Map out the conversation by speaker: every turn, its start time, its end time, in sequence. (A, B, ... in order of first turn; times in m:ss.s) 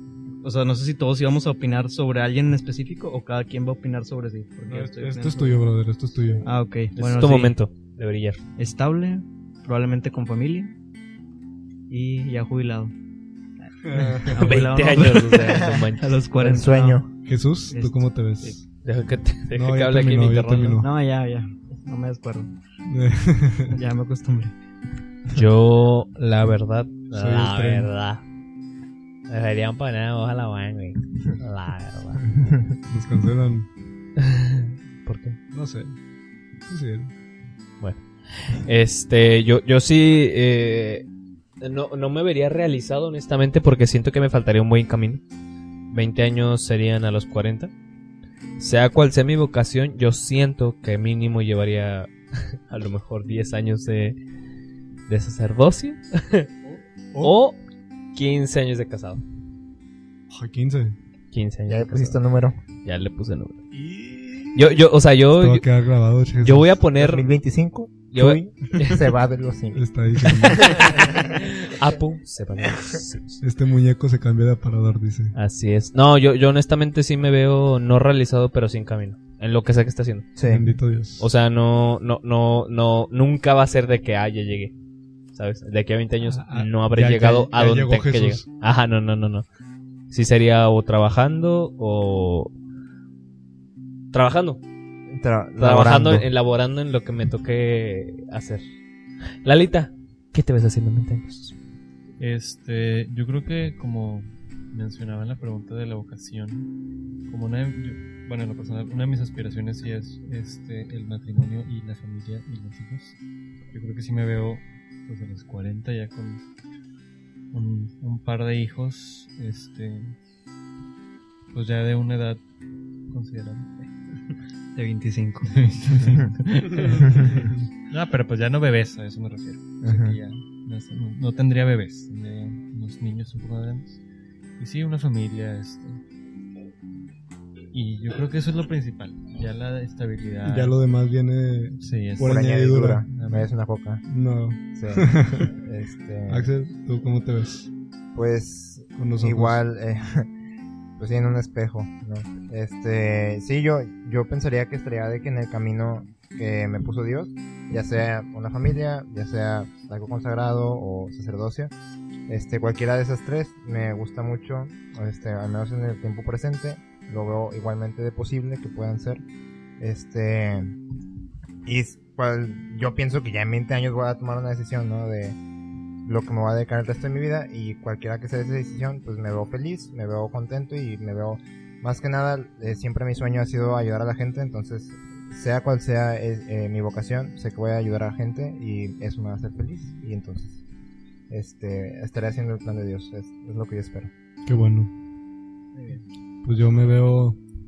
0:00.4-0:05.6 A
0:04.7-0:06.4 B
0:06.4-0:07.6 A
0:06.9-0:08.4 C
0:08.6-0:10.7 A
0:11.9-0:12.9 A
0:13.8-0:14.6 B
0:13.9-0:17.0 A
0:14.3-0:16.2 C
0:16.4-0:17.1 D
0:17.2-0:18.6 B
0:17.7-0:18.6 A
0:18.8-0:20.8 C
0:19.5-0:20.9 B
0:20.8-0:22.5 A
0:22.9-0:23.8 B
0:23.7-0:24.5 A
0:25.3-0:28.2 C
0:27.1-0:27.9 B
0:29.3-0:32.2 C
0:32.9-0:33.7 B
0:34.2-0:35.4 C
0:35.5-0:36.0 B
0:36.7-0:37.1 B
0:37.8-0:41.0 C
0:41.6-0:45.2 C
0:45.9-0:47.7 C
0:48.6-0:54.2 C
0:55.1-0:56.5 C
0:57.2-0:57.6 C
0:58.1-0:59.2 C
1:00.3-1:01.0 B
1:01.3-1:02.2 C
1:01.7-1:02.6 D
1:02.8-1:03.6 C
1:03.7-1:04.7 B
1:04.5-1:05.6 C
1:05.4-1:06.8 B
1:06.4-1:07.3 C
1:06.9-1:11.3 D
1:08.1-1:09.1 C
1:09.7-1:10.7 B
1:10.8-1:13.4 C
1:13.4-1:15.3 B
1:15.3-1:20.3 C
1:20.4-1:20.7 D
1:20.4-1:21.3 B
1:21.2-1:24.7 C
1:25.3-1:29.4 C
1:26.2-1:28.4 B
1:30.1-1:32.5 C
1:34.1-1:34.6 C
1:35.1-1:36.3 D
1:35.6-1:38.6 C
1:39.4-1:41.5 C
1:42.2-1:46.7 E
1:47.3-1:53.2 E
1:53.7-1:56.4 E
1:57.5-2:00.1 E
2:01.5-2:02.4 E
2:03.1-2:03.8 E
2:04.7-2:05.5 A
2:05.5-2:14.0 E
2:06.8-2:07.6 B
2:09.8-2:10.2 D
2:14.6-2:16.0 E
2:17.7-2:20.8 E
2:20.4-2:23.0 B
2:21.8-2:22.5 E
2:22.2-2:24.0 D
2:23.1-2:23.5 E
2:24.1-2:25.5 B
2:24.7-2:26.5 D
2:26.3-2:27.7 B
2:28.1-2:30.3 D
2:29.0-2:29.6 B
2:31.0-2:41.7 D
2:42.3-2:49.2 D
2:49.8-2:50.8 D
2:51.6-2:55.4 D
2:56.0-3:10.6 D
3:11.3-3:14.1 D
3:14.4-3:14.9 B
3:15.7-3:16.0 A
3:16.4-3:17.4 B